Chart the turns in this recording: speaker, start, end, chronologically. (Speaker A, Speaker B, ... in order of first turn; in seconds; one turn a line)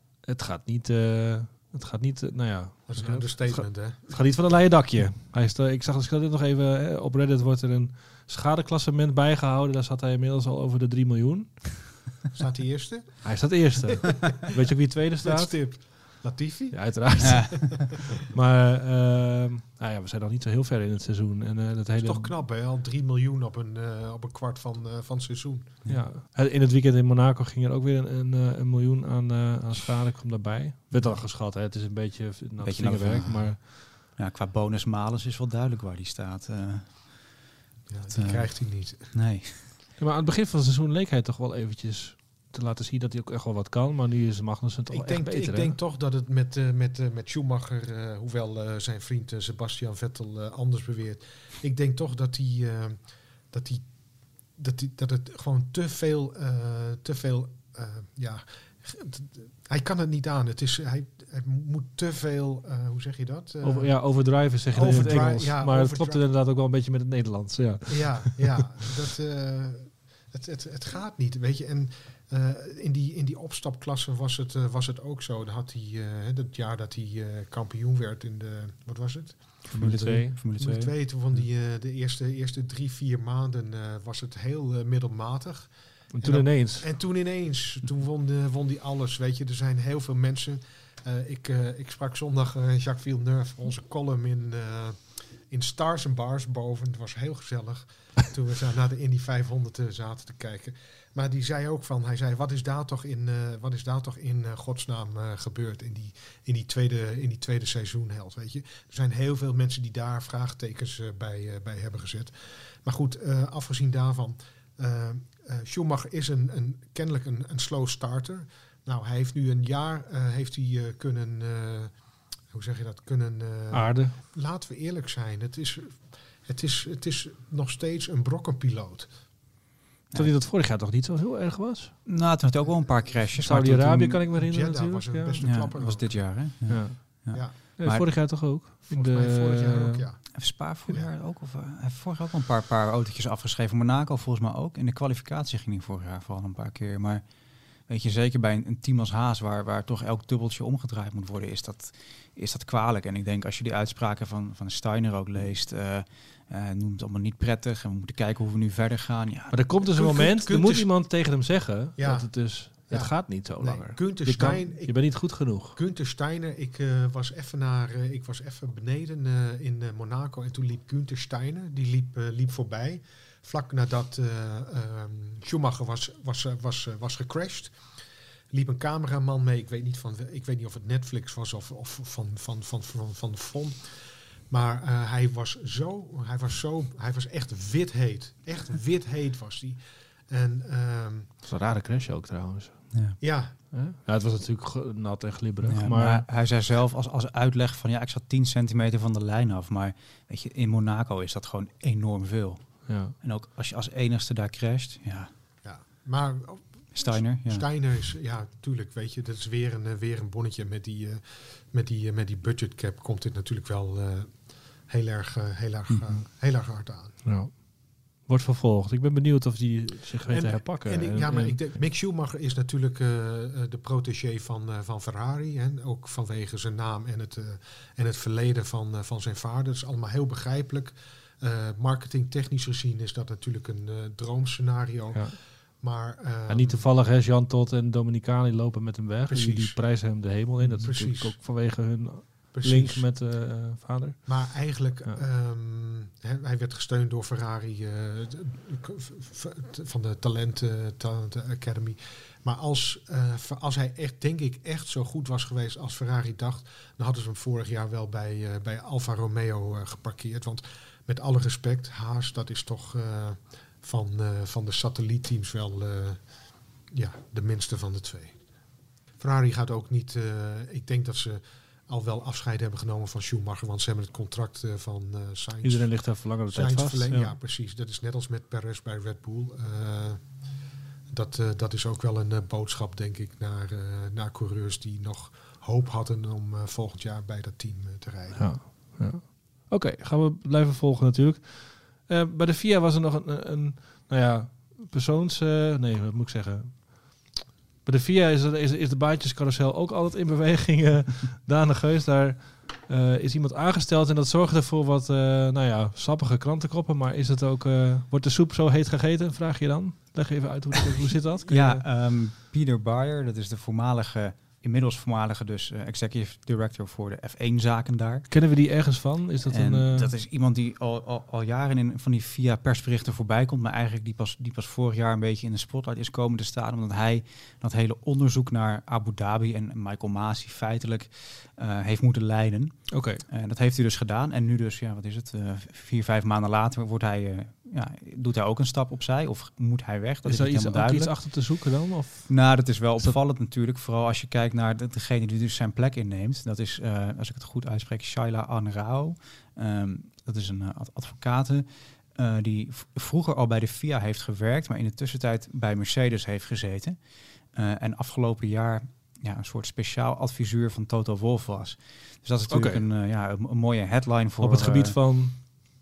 Speaker A: 0.2-12.0
Speaker B: 2.9-4.5
Speaker B: 12.3-14.3
Speaker A: 13.2-16.2
Speaker B: 15.2-18.1
Speaker A: 16.7-22.3
Speaker C: 17.2-17.6
Speaker B: 21.9-25.8
Speaker C: 25.8-26.1
Speaker A: 25.9-33.6
Speaker C: 32.6-37.4
Speaker B: 37.9-39.1
Speaker C: 38.1-39.7
Speaker A: 40.0-45.7
Speaker B: 44.9-66.2
Speaker A: 63.6-68.6
Speaker B: 67.9-79.7
Speaker A: 79.7-80.3
Speaker C: 79.7-81.4
Speaker B: 80.6-129.1
Speaker A: 86.1-86.9
Speaker A: 123.7-124.1
Speaker A: 130.1-132.0
Speaker C: 132.1-134.2
Speaker A: 133.4-135.6
Speaker B: 134.3-136.7
Speaker C: 135.4-138.3
Speaker A: 136.7-140.0
Speaker B: 138.9-141.1
Speaker C: 140.3-159.6
Speaker A: 159.5-165.8
Speaker B: 159.8-161.0
Speaker B: 162.0-177.9
Speaker B: 178.5-191.3
Speaker A: 191.4-196.2
Speaker C: 192.9-193.2
Speaker B: 193.2-193.6
Speaker C: 195.7-205.3
Speaker A: 202.9-203.1
Speaker B: 205.6-217.2
Speaker C: 206.9-207.7
Speaker C: 215.9-216.1
Speaker A: 217.2-221.6
Speaker B: 220.3-236.9
Speaker A: 236.5-245.2
Speaker B: 239.3-241.4
Speaker B: 242.5-243.1
Speaker B: 244.3-268.6
Speaker B: 269.1-280.5
Speaker A: 275.6-277.3
Speaker B: 281.1-288.9
Speaker A: 288.3-311.8
Speaker C: 311.5-318.3
Speaker A: 318.3-320.1
Speaker C: 319.4-365.0
Speaker A: 332.9-333.2
Speaker A: 340.2-343.1
Speaker A: 362.5-362.8
Speaker A: 364.4-365.4